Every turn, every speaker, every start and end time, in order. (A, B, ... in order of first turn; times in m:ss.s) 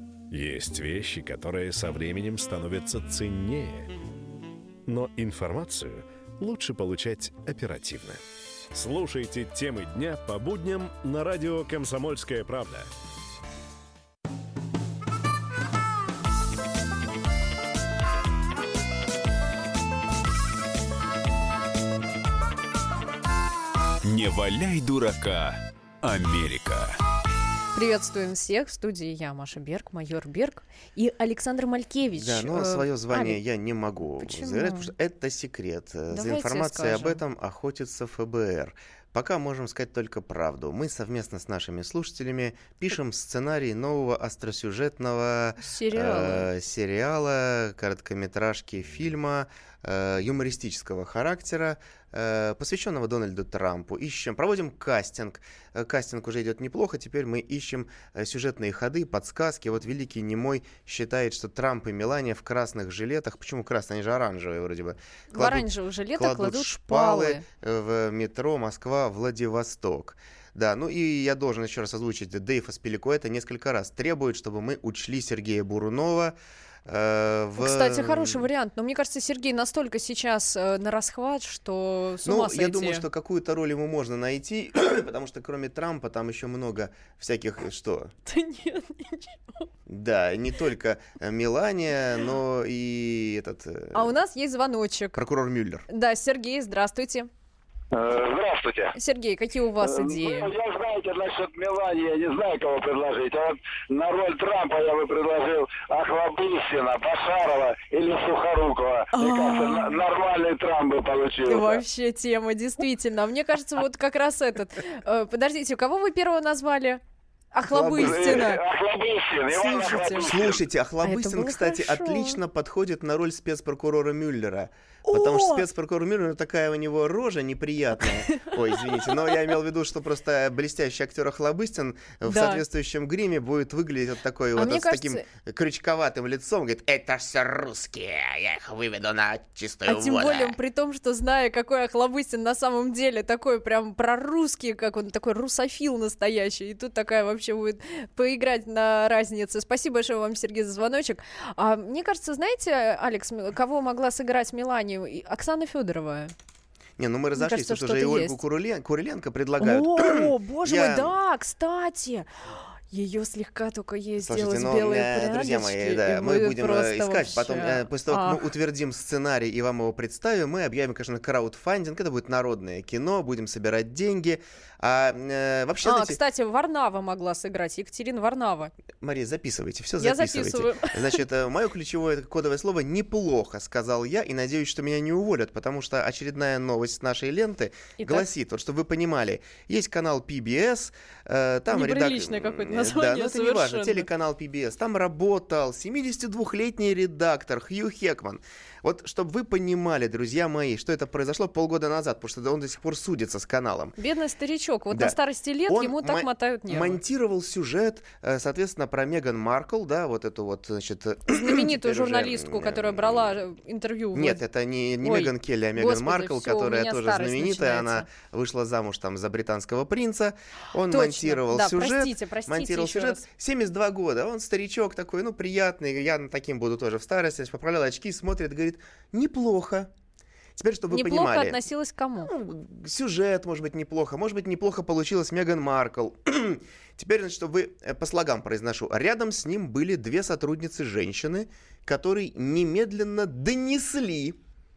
0:00.3-0:03.9 A
0:04.8-0:08.2 A
0:08.7-0:12.9 A
0:24.0-0:27.0 B
0:27.7-0:33.4 C
0:32.2-1:18.4 D
0:34.2-0:34.9 C
0:36.1-0:37.2 C
0:45.6-0:46.5 C
1:05.3-1:07.4 C
1:17.6-1:23.0 C
1:22.2-1:28.1 D
1:28.2-1:29.7 C
1:29.9-1:34.1 D
1:33.9-1:35.2 C
1:35.1-1:35.8 D
1:35.9-1:37.3 C
1:37.9-1:38.9 E
1:38.9-1:40.5 C
1:39.8-1:51.8 E
1:49.1-1:50.0 C
1:51.4-1:57.0 C
1:57.5-1:58.6 C
1:57.7-1:58.5 D
1:57.9-2:00.6 E
1:59.5-2:00.3 C
2:00.2-2:20.5 D
2:01.0-2:02.4 C
2:05.0-2:05.6 C
2:12.3-2:12.6 C
2:14.6-2:15.2 C
2:19.8-2:36.3 C
2:37.0-2:41.1 D
2:37.4-2:38.4 C
2:39.6-2:42.3 C
2:42.9-2:48.4 C
2:44.2-2:56.2 D
2:55.8-2:58.7 C
2:59.0-3:23.9 D
3:00.0-3:01.2 C
3:08.0-3:08.3 C
3:11.7-3:14.1 C
3:24.0-3:27.0 C
3:24.9-3:25.2 D
3:25.7-3:33.3 D
3:31.3-3:34.4 C
3:34.1-3:49.9 D
3:35.0-3:38.1 C
3:40.9-3:43.2 C
3:50.6-3:51.6 D
3:50.9-3:52.3 C
3:52.2-4:04.4 D